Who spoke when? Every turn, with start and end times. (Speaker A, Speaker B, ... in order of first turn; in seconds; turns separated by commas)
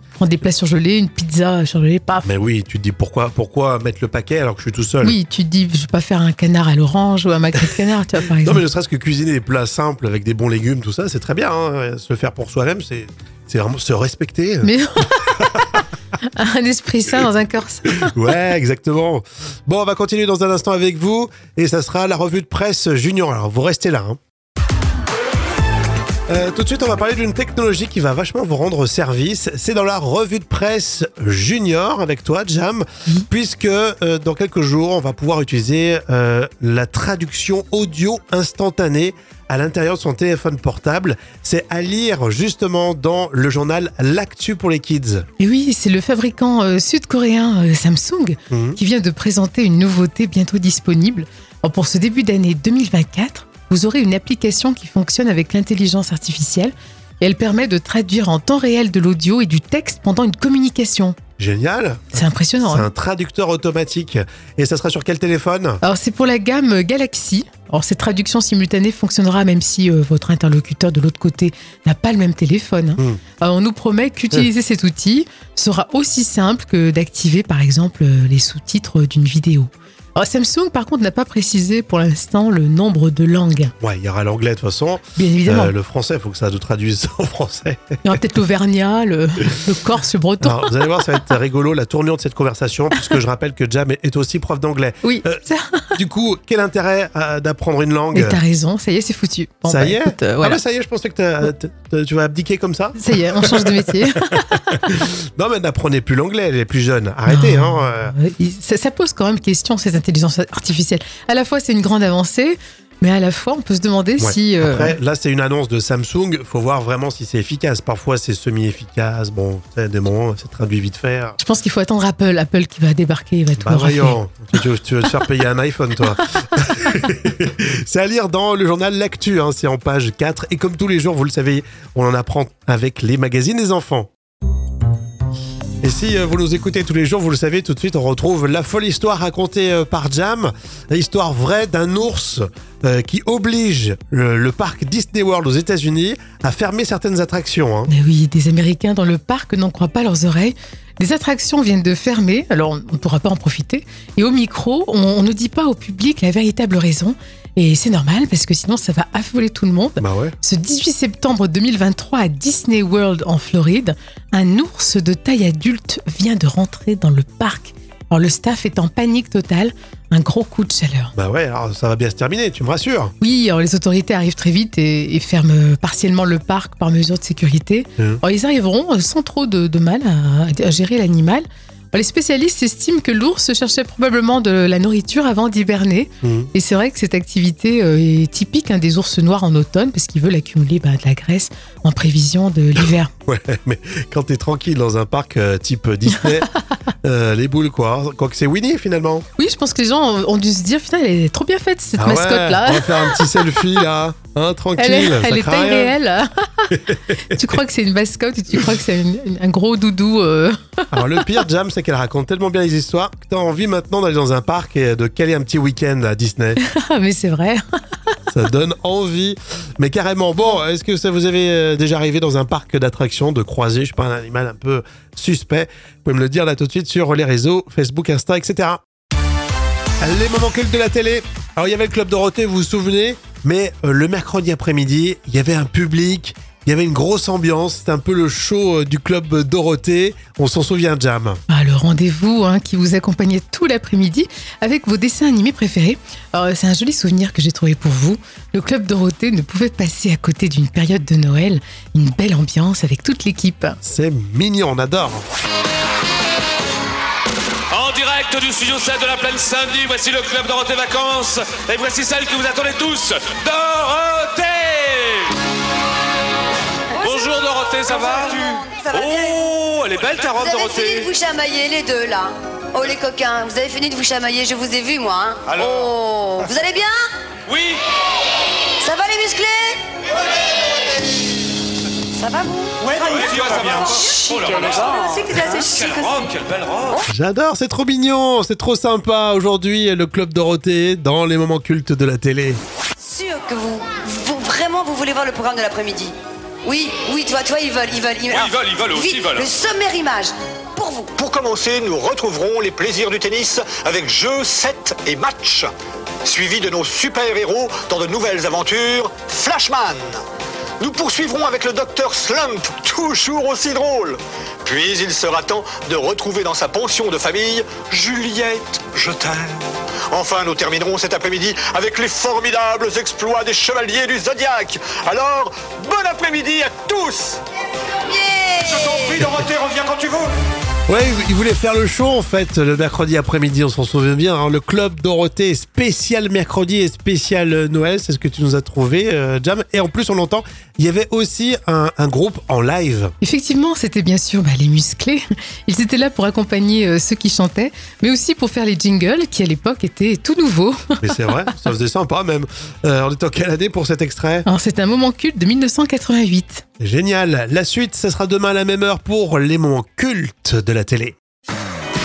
Speaker A: 0.2-2.3, Speaker B: 2.2-5.2, Speaker A: 5.0-8.6, Speaker B: 8.4-15.2, Speaker A: 14.6-15.3, Speaker A: 16.4-18.1, Speaker B: 18.1-24.2, Speaker B: 26.3-45.3, Speaker A: 45.4-61.2, Speaker B: 48.5-48.8, Speaker B: 61.4-65.8, Speaker A: 62.1-62.9, Speaker A: 65.8-83.7, Speaker B: 83.8-88.0, Speaker A: 85.2-85.7, Speaker A: 88.0-90.7, Speaker B: 90.4-95.4, Speaker A: 95.0-96.0, Speaker B: 96.0-98.4, Speaker A: 98.1-100.6, Speaker B: 99.7-108.1, Speaker A: 103.0-104.8, Speaker A: 107.3-115.0, Speaker B: 114.2-121.4, Speaker A: 121.4-124.2, Speaker B: 123.6-134.1, Speaker B: 135.8-147.9, Speaker A: 147.9-171.1, Speaker B: 160.0-160.4, Speaker B: 171.2-173.1, Speaker A: 173.2-193.1, Speaker B: 186.2-186.5, Speaker B: 193.3-196.5, Speaker B: 197.0-199.3, Speaker A: 199.4-203.6, Speaker B: 202.0-205.9, Speaker A: 204.8-210.9, Speaker B: 206.9-207.4, Speaker B: 210.9-216.6, Speaker A: 216.6-217.6, Speaker B: 218.3-228.8, Speaker B: 230.0-241.4, Speaker A: 241.5-253.8, Speaker B: 253.8-255.3, Speaker C: 257.7-265.3, Speaker C: 267.0-271.1, Speaker D: 268.0-269.4, Speaker D: 270.4-277.0, Speaker C: 277.5-277.8, Speaker D: 278.8-279.8, Speaker D: 282.1-286.3, Speaker C: 282.9-286.9, Speaker B: 287.1-292.6, Speaker D: 293.0-301.1, Speaker C: 298.4-299.5, Speaker E: 301.2-305.7, Speaker E: 306.2-310.2, Speaker E: 310.8-327.4, Speaker D: 328.1-329.2, Speaker E: 328.8-330.3, Speaker B: 330.9-343.1, Speaker A: 343.2-351.3, Speaker B: 351.0-354.5, Speaker A: 354.5-356.6, Speaker B: 356.8-361.2